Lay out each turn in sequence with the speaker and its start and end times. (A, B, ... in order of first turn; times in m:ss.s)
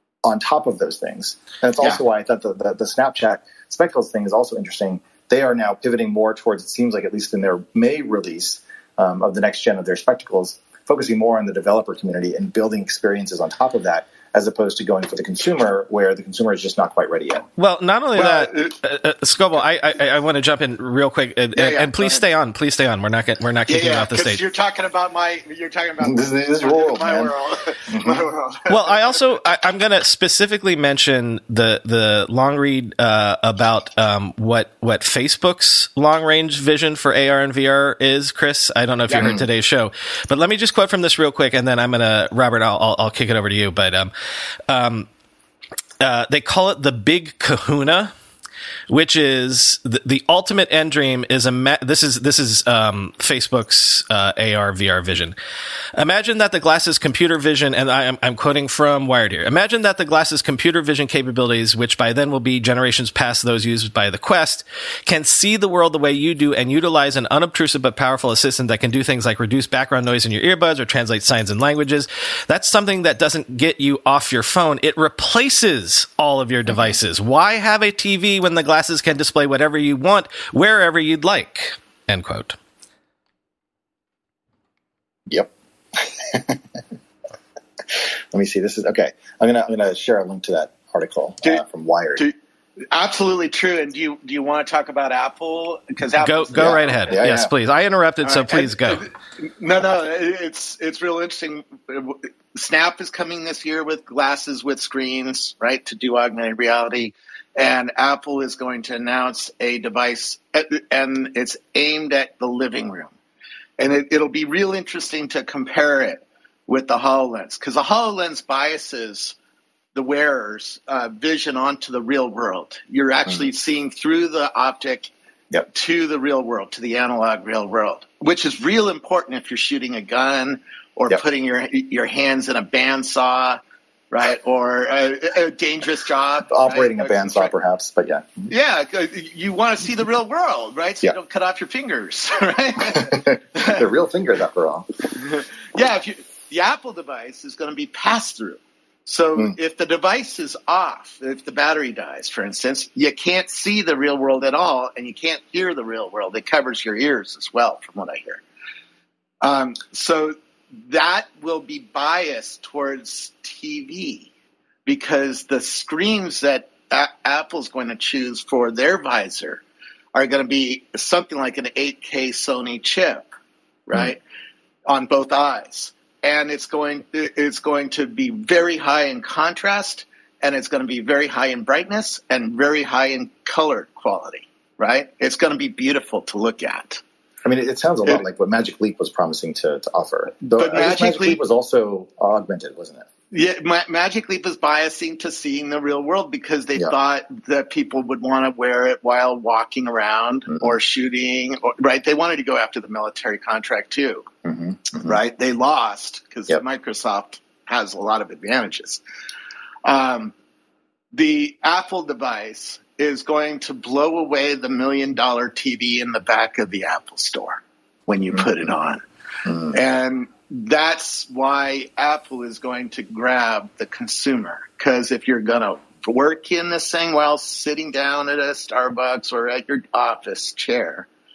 0:00.2-0:17.5 A
0:17.6-0:24.4 B
0:18.2-0:18.7 C
0:21.6-0:22.2 C
0:23.7-0:29.2 C
0:26.0-0:27.3 A
0:27.9-0:28.2 A
0:28.7-0:44.1 B
0:39.2-0:39.4 A
0:44.7-0:45.1 B
0:46.0-0:48.1 B
0:48.9-0:55.4 B
0:56.0-1:22.6 B
1:25.3-1:26.6 A
1:28.3-1:32.2 A
1:32.9-1:37.1 C
1:36.2-1:39.0 B
1:36.6-1:37.5 A
1:38.2-1:53.1 C
1:53.8-1:59.4 C
2:00.0-2:05.1 C
2:05.6-2:13.6 C
2:14.1-2:17.5 C
2:16.5-2:18.5 A
2:18.5-2:23.8 C
2:23.0-2:24.9 A
2:25.1-2:38.4 C
2:39.4-2:44.3 C
2:44.8-2:49.6 C
2:50.1-2:53.3 C
2:53.9-2:54.2 C
2:54.9-3:07.0 C
3:07.4-3:13.1 A
3:10.4-3:11.4 C
3:13.3-3:24.3 C
3:24.4-3:25.2 A
3:25.0-3:29.0 C
3:29.8-3:30.3 C
3:31.1-3:39.0 C
3:39.5-3:39.8 A
3:39.7-3:51.1 C